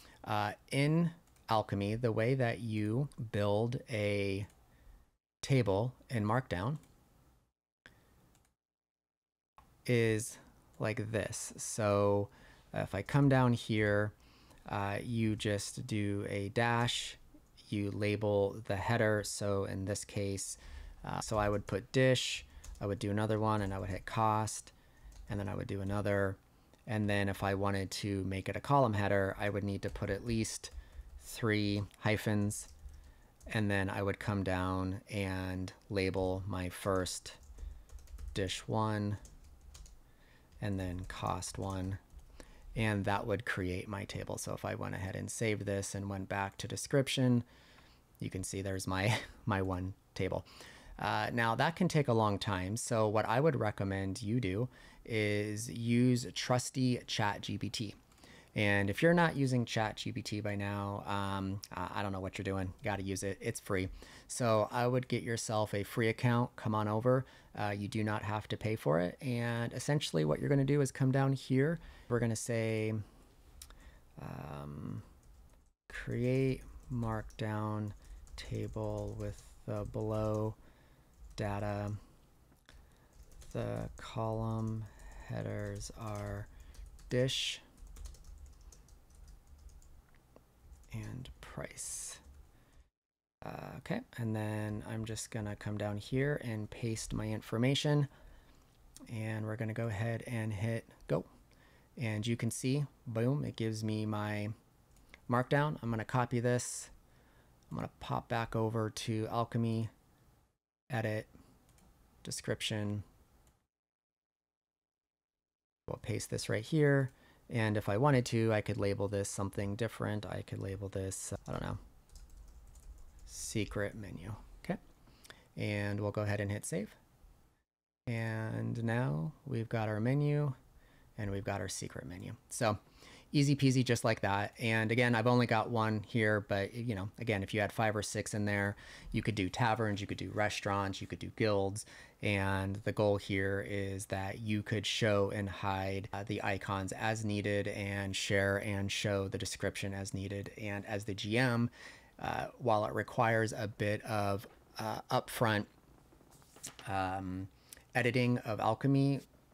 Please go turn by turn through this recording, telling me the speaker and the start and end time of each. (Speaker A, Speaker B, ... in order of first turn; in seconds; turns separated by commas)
Speaker A: 0.2-4.5, Speaker A: 5.4-6.8, Speaker A: 9.8-14.1, Speaker A: 14.7-24.7, Speaker A: 25.3-32.7, Speaker A: 33.5-37.4, Speaker A: 38.3-39.2, Speaker A: 40.6-42.0, Speaker A: 42.7-47.5, Speaker A: 48.2-50.5, Speaker A: 51.0-58.0, Speaker A: 58.5-73.0, Speaker A: 74.2-75.0, Speaker A: 75.9-80.6, Speaker A: 81.4-82.0, Speaker A: 83.5-86.5, Speaker A: 87.1-87.6, Speaker A: 90.9-92.2, Speaker A: 93.4-98.1, Speaker A: 99.1-101.3, Speaker A: 102.0-104.5, Speaker A: 105.3-106.9, Speaker A: 107.7-109.9, Speaker A: 110.9-111.3, Speaker A: 112.2-113.0, Speaker A: 115.9-121.8, Speaker A: 123.3-124.8, Speaker A: 125.5-127.0, Speaker A: 128.1-130.6, Speaker A: 131.2-132.8, Speaker A: 133.3-155.7, Speaker A: 156.8-159.2